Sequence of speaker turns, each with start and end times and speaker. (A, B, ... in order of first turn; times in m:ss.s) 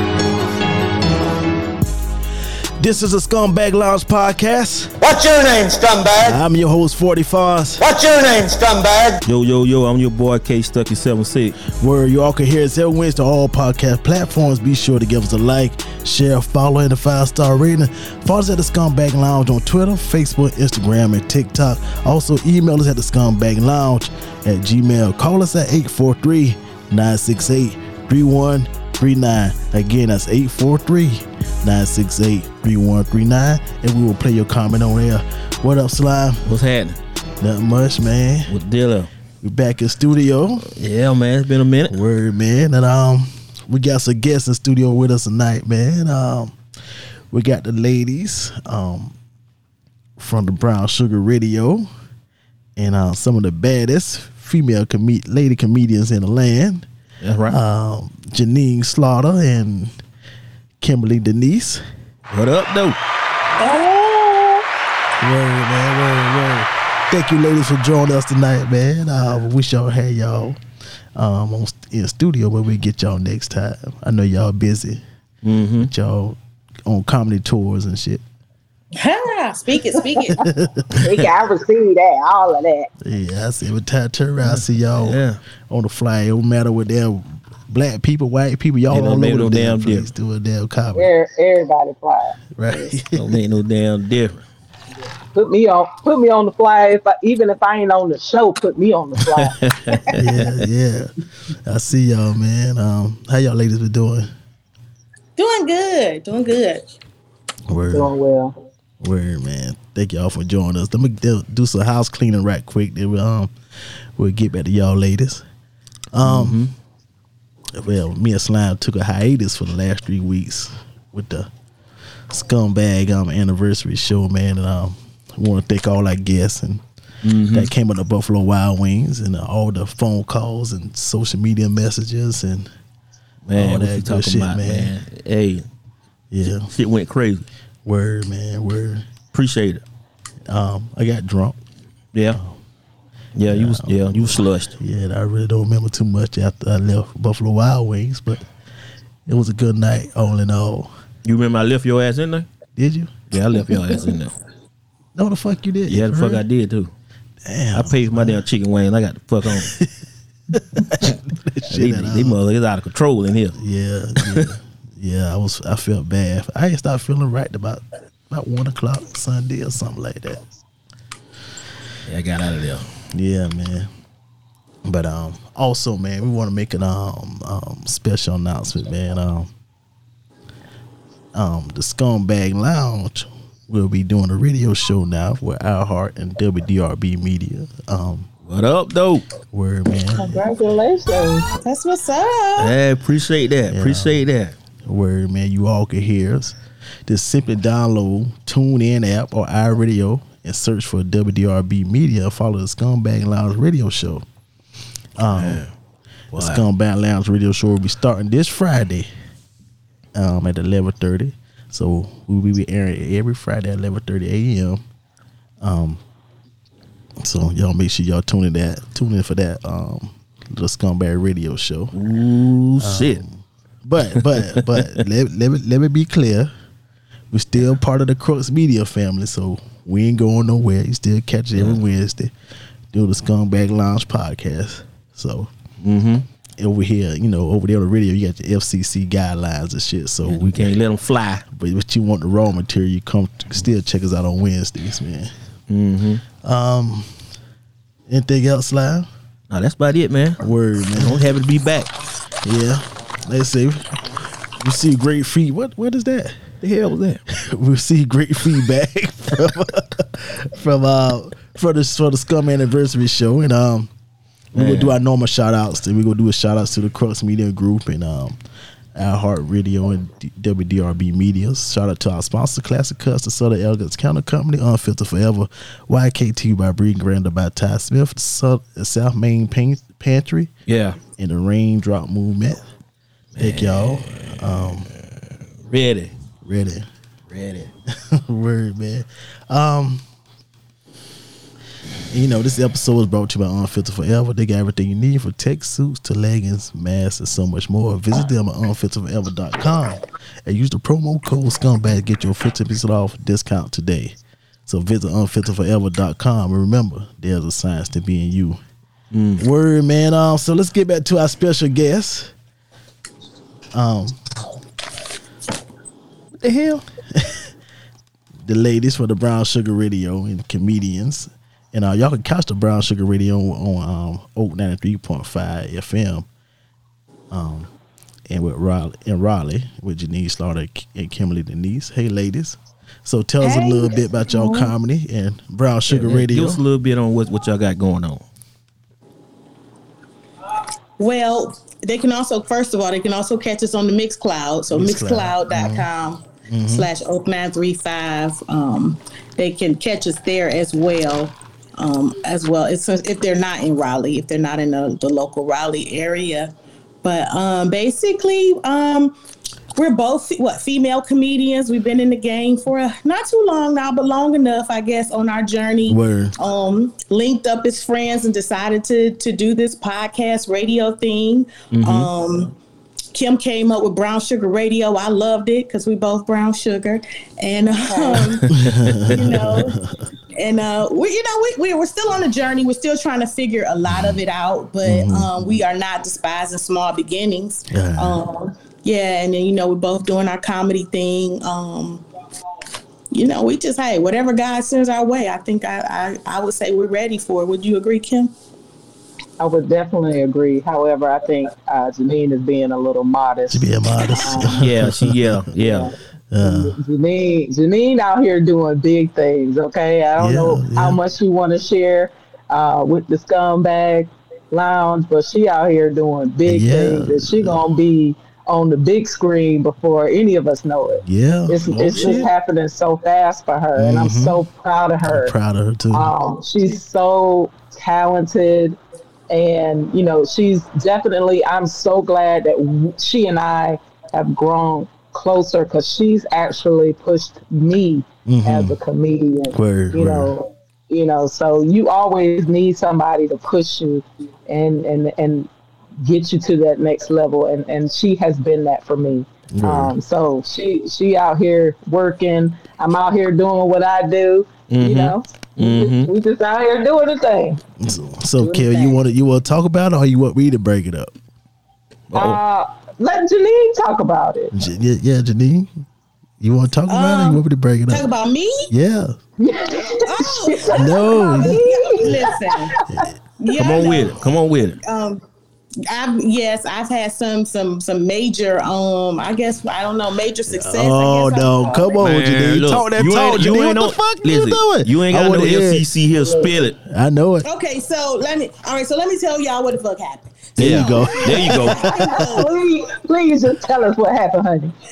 0:02.8-0:04.9 A
0:05.0-0:06.4 B
0:06.2-0:07.8 A
0:07.8-0:09.2 B
0:09.2-0:11.6 C
0:11.7-0:36.5 A
0:36.4-0:37.0 C
0:37.4-0:38.5 A
0:38.5-0:39.1 C
0:39.4-0:40.7 A
0:40.7-0:42.0 C
0:41.9-0:46.6 A
0:47.3-0:49.1 A
0:50.2-0:51.9 A
0:52.8-0:56.9 A
0:57.2-0:57.6 C
0:57.5-0:59.9 A
1:00.8-1:01.8 A
1:02.3-1:03.0 C
1:03.6-1:04.6 D
1:05.2-1:10.6 A
1:11.1-1:15.0 A
1:15.4-1:15.9 C
1:15.8-1:18.2 A
1:19.0-1:20.4 D
1:20.4-1:20.9 A
1:20.9-1:22.9 E
1:20.9-1:21.2 C
1:23.0-1:31.1 A
1:24.4-1:25.4 C
1:28.9-1:30.1 C
1:30.9-1:32.9 E
1:32.6-1:33.4 A
1:33.1-1:34.4 C
1:35.3-1:39.6 E
1:39.3-1:40.5 C
1:40.1-1:41.1 A
1:41.6-1:44.3 A
1:45.4-1:46.8 D
1:47.7-1:48.1 A
1:47.9-1:48.5 E
1:49.0-1:53.5 A
1:54.2-1:55.4 A
1:56.1-1:56.6 A
1:56.2-1:56.7 C
1:57.8-2:01.5 A
2:02.3-2:06.8 A
2:07.2-2:07.7 C
2:07.5-2:12.7 A
2:13.4-2:15.6 C
2:13.5-2:14.9 A
2:16.3-2:16.7 A
2:16.7-2:17.4 C
2:17.8-2:19.1 A
2:19.3-2:19.8 C
2:20.5-2:21.6 A
2:22.3-2:22.6 A
2:23.4-2:24.7 C
2:23.4-2:28.4 A
2:29.3-2:30.9 A
2:31.2-2:32.4 C
2:32.8-2:33.1 A
2:33.3-2:34.3 C
2:35.2-2:36.4 A
2:35.9-2:36.9 C
2:37.4-2:38.4 A
2:37.7-2:39.7 C
2:39.4-2:39.9 A
2:40.5-2:42.4 A
2:41.7-2:43.6 C
2:43.5-2:50.5 A
2:44.2-2:44.5 C
2:52.0-2:52.9 C
2:53.1-2:53.9 A
2:54.8-2:59.5 A
3:01.3-3:08.3 A
3:08.5-3:09.2 C
3:09.5-3:10.4 A
3:10.1-3:11.5 E
3:11.6-3:12.7 D
3:12.6-3:14.5 C
3:13.7-3:14.2 A
3:14.8-3:16.6 A
3:17.1-3:24.2 A
3:25.2-3:25.6 A
3:25.3-3:25.7 C
3:26.3-3:26.6 C
3:26.3-3:29.1 A
3:30.1-3:34.8 A
3:35.6-3:36.0 A
3:37.2-3:41.9 A
3:41.9-3:43.2 C
3:42.8-3:46.5 A
3:44.2-3:45.0 C
3:47.3-3:52.3 A
3:52.9-3:55.5 A
3:55.8-3:56.2 C
3:56.6-4:00.7 A
4:00.2-4:01.4 C
4:01.5-4:05.3 A
4:05.7-4:06.2 C
4:06.4-4:07.1 A
4:08.1-4:09.1 A
4:09.5-4:10.4 C
4:10.4-4:11.3 A
4:10.9-4:11.9 C
4:12.4-4:14.0 A
4:14.6-4:16.5 A
4:16.6-4:17.2 C
4:17.3-4:23.9 A
4:24.5-4:28.4 A
4:24.5-4:24.9 C
4:28.9-4:40.5 A
4:40.7-4:41.0 C
4:41.2-4:42.6 A
4:43.3-4:46.1 C
4:43.4-4:44.9 A
4:46.4-4:46.9 A
4:47.3-4:47.7 C
4:48.1-4:50.0 A
4:52.1-5:04.2 A
5:04.7-5:08.6 A
5:09.1-5:09.4 C
5:09.4-5:12.3 A
5:13.7-5:14.2 A
5:16.3-5:17.5 A
5:18.4-5:26.3 A
5:27.3-5:27.7 A
5:28.3-5:36.6 A
5:33.4-5:34.7 D
5:35.9-5:38.2 C
5:41.0-5:56.5 D
5:44.7-5:45.9 A
5:46.5-5:46.9 A
5:57.0-5:59.2 D
5:59.7-6:12.5 D
6:05.9-6:06.3 A
6:11.7-6:12.1 C
6:13.1-6:18.5 D
6:17.9-6:18.3 E
6:18.5-6:20.0 A
6:18.7-6:19.4 C
6:19.1-6:19.8 D
6:20.3-6:32.0 D
6:23.9-6:24.2 A
6:24.8-6:25.6 A
6:27.7-6:28.2 A
6:33.1-6:38.3 D
6:39.4-6:44.6 E
6:43.5-6:45.4 A
6:44.6-6:45.9 C
6:45.6-7:05.3 E
6:46.3-6:46.7 A
6:50.2-6:51.0 A
6:56.4-6:57.6 A
7:01.0-7:02.3 A
7:03.8-7:04.4 A
7:05.1-7:06.1 A
7:05.9-7:08.8 E
7:09.3-7:25.5 E
7:18.2-7:18.8 A
7:19.5-7:20.3 A
7:26.0-7:37.6 E
7:29.5-7:29.9 A
7:34.7-7:36.1 C
7:37.8-7:41.1 A
7:38.4-7:39.0 D
7:42.1-7:42.4 C
7:42.1-7:44.5 E
7:44.5-7:45.7 A
7:46.4-7:48.1 A
7:46.9-7:48.7 D
7:48.7-7:49.2 A
7:49.4-7:53.0 E
7:50.0-7:52.7 D
7:50.7-7:52.2 A
7:52.9-7:53.2 A
7:53.4-7:54.2 D
7:53.6-7:54.8 C
7:54.8-7:55.2 D
7:55.9-8:02.0 D
8:00.5-8:05.8 A
8:02.0-8:06.8 C
8:06.1-8:06.5 E
8:06.8-8:07.4 A
8:07.4-8:12.5 D
8:10.6-8:11.6 A
8:10.6-8:11.9 C
8:11.7-8:14.7 E